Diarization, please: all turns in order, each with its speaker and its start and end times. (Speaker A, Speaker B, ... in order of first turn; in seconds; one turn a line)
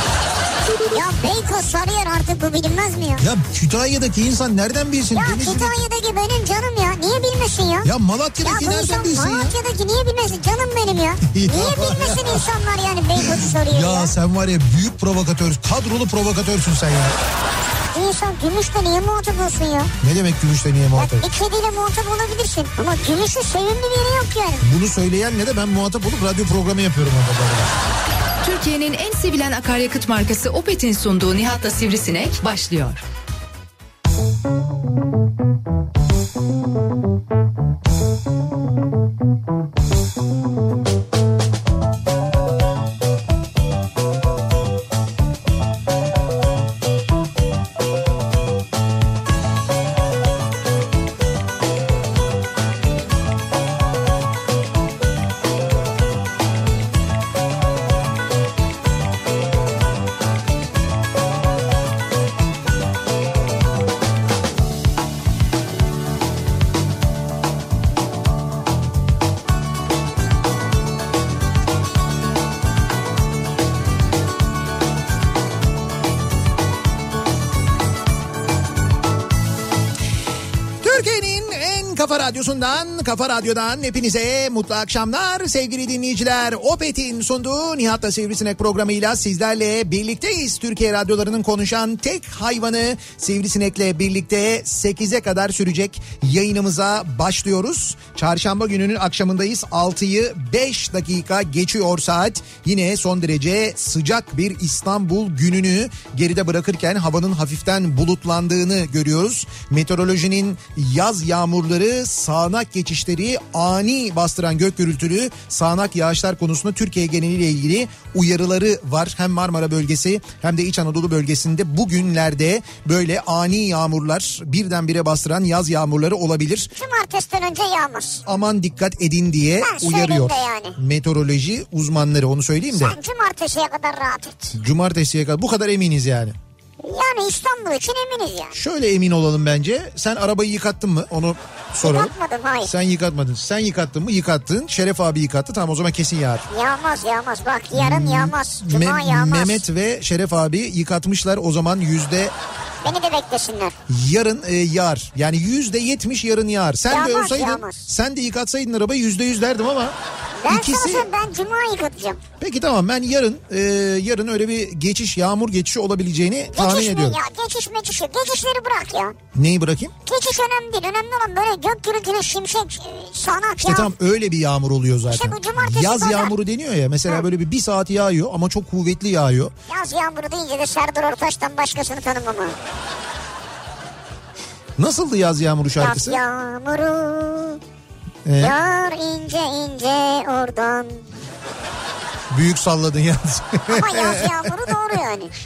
Speaker A: 0.9-3.2
Speaker B: 3.2-5.8
Speaker A: 5.1-14.1
Speaker B: 7.8-9.6
Speaker B: 11.3-12.4
Speaker B: 13.2-17.1
Speaker A: 17.9-19.9
Speaker B: 20.0-21.3
Speaker A: 20.9-24.7
Speaker B: 24.6-27.7
Speaker C: 28.4-33.0
Speaker B: 80.8-126.7
Speaker A: 126.8-128.2
Speaker B: 128.2-133.0
Speaker A: 129.6-130.8
Speaker A: 132.7-134.5
Speaker B: 134.5-136.3
Speaker A: 136.8-138.5
Speaker B: 138.5-146.5
Speaker A: 141.8-142.7
Speaker A: 146.5-149.6
Speaker B: 147.7-152.3
Speaker A: 152.8-153.8
Speaker B: 153.9-159.9
Speaker A: 156.9-157.9
Speaker A: 160.4-162.2
Speaker B: 160.5-161.1
Speaker B: 162.4-167.2
Speaker A: 166.5-169.2
Speaker B: 169.3-169.9
Speaker A: 170.1-173.9
Speaker B: 173.6-179.5
Speaker A: 175.1-176.3
Speaker A: 179.7-182.6
Speaker B: 184.8-186.2
Speaker A: 185.8-187.6
Speaker B: 188.2-188.6
Speaker A: 188.4-191.0
Speaker B: 192.3-194.7
Speaker A: 193.7-195.3